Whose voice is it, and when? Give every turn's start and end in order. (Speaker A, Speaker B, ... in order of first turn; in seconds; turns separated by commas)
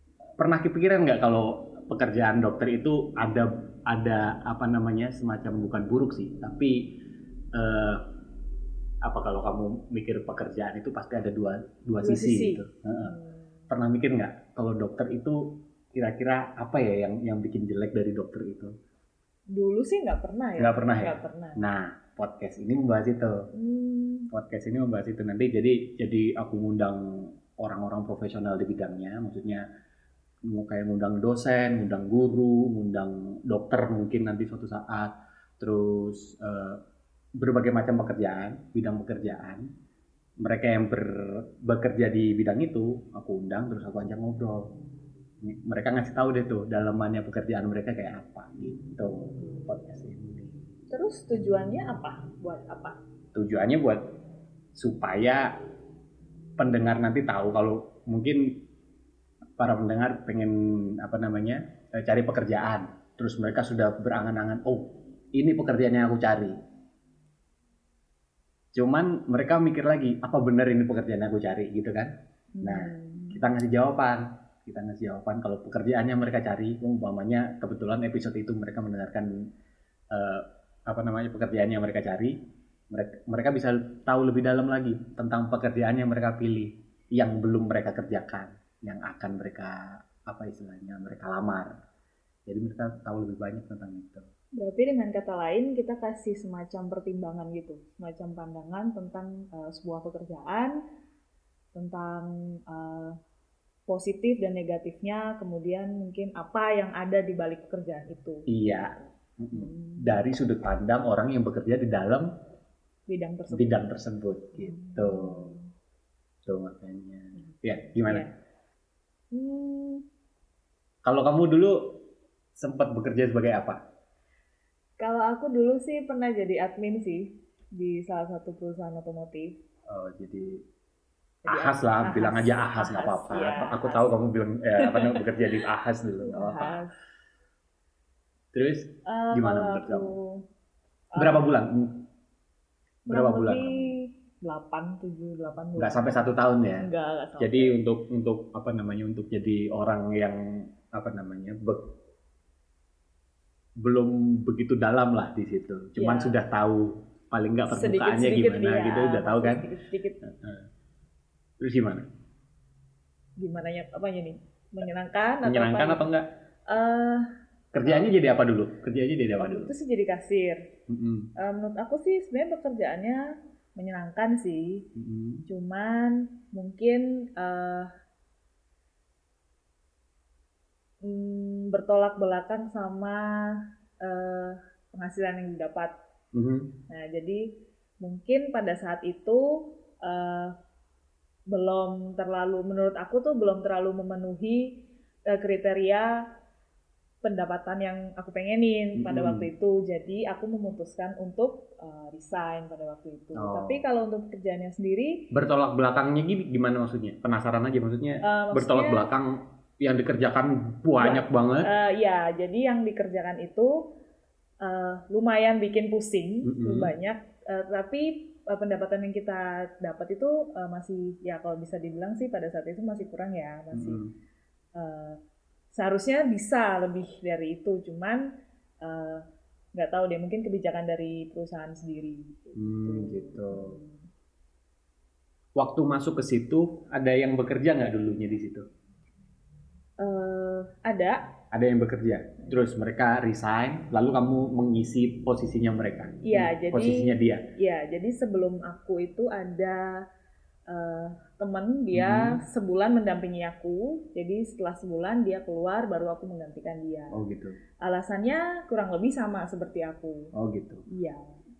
Speaker A: 0.4-7.0, Speaker A: 7.5-8.0, Speaker A: 9.0-13.1, Speaker B: 12.0-13.4, Speaker A: 13.7-18.7, Speaker B: 19.5-21.6, Speaker A: 20.6-23.4, Speaker B: 23.5-24.3, Speaker A: 24.3-29.6, Speaker A: 30.5-36.8, Speaker A: 37.4-39.6, Speaker A: 40.4-44.7, Speaker A: 45.4-50.6, Speaker B: 50.9-53.0, Speaker A: 53.3-54.0, Speaker A: 54.7-55.5, Speaker A: 56.6-58.6, Speaker A: 59.6-66.5, Speaker A: 68.7-79.3, Speaker B: 72.5-73.4, Speaker A: 80.1-82.3, Speaker A: 82.9-91.7, Speaker A: 92.5-94.3, Speaker B: 94.6-100.8, Speaker B: 101.7-103.2, Speaker B: 103.9-110.2, Speaker A: 108.5-112.3, Speaker B: 113.1-113.8, Speaker A: 113.5-115.5, Speaker B: 114.6-115.7, Speaker A: 116.4-118.2, Speaker B: 119.3-120.0, Speaker A: 121.0-121.8, Speaker A: 122.5-123.8, Speaker B: 125.0-129.6, Speaker A: 129.9-130.6, Speaker B: 131.4-134.1, Speaker A: 131.5-136.8, Speaker B: 134.8-135.3, Speaker B: 136.0-136.9, Speaker A: 138.5-140.1, Speaker B: 139.1-140.4, Speaker B: 141.1-141.5, Speaker A: 141.2-142.0, Speaker B: 143.1-146.2, Speaker A: 143.1-143.9, Speaker A: 145.8-146.9, Speaker B: 146.8-147.7, Speaker A: 147.4-151.8, Speaker A: 153.8-159.7, Speaker B: 156.0-156.3, Speaker B: 157.7-160.2, Speaker A: 160.2-160.7, Speaker A: 161.6-162.1, Speaker B: 163.4-166.1, Speaker A: 165.4-166.3, Speaker B: 166.7-167.2, Speaker A: 167.7-169.7, Speaker B: 167.8-168.1, Speaker B: 169.4-170.6, Speaker A: 170.9-171.3, Speaker B: 171.4-173.2, Speaker B: 173.8-174.8, Speaker A: 174.9-175.4, Speaker B: 175.5-177.9, Speaker B: 181.0-185.9, Speaker A: 186.3-186.7, Speaker B: 186.9-187.4, Speaker B: 188.0-190.5, Speaker B: 191.5-194.6, Speaker B: 195.3-196.1, Speaker B: 197.2-205.2, Speaker A: 199.0-199.5, Speaker A: 203.3-203.8, Speaker A: 205.3-211.7, Speaker B: 208.2-209.1, Speaker B: 211.0-213.8, Speaker B: 214.6-224.0, Speaker A: 216.4-216.9, Speaker A: 223.7-224.1, Speaker B: 224.8-225.2, Speaker B: 225.7-228.2, Speaker B: 228.8-229.2, Speaker B: 229.8-234.0, Speaker A: 232.6-233.8, Speaker A: 235.6-238.6, Speaker B: 240.0-241.2, Speaker A: 241.5-247.4, Speaker B: 246.2-249.9, Speaker B: 250.7-257.1, Speaker A: 251.9-252.4, Speaker A: 257.1-257.6, Speaker B: 257.8-260.3, Speaker A: 260.3-260.8, Speaker B: 260.9-261.3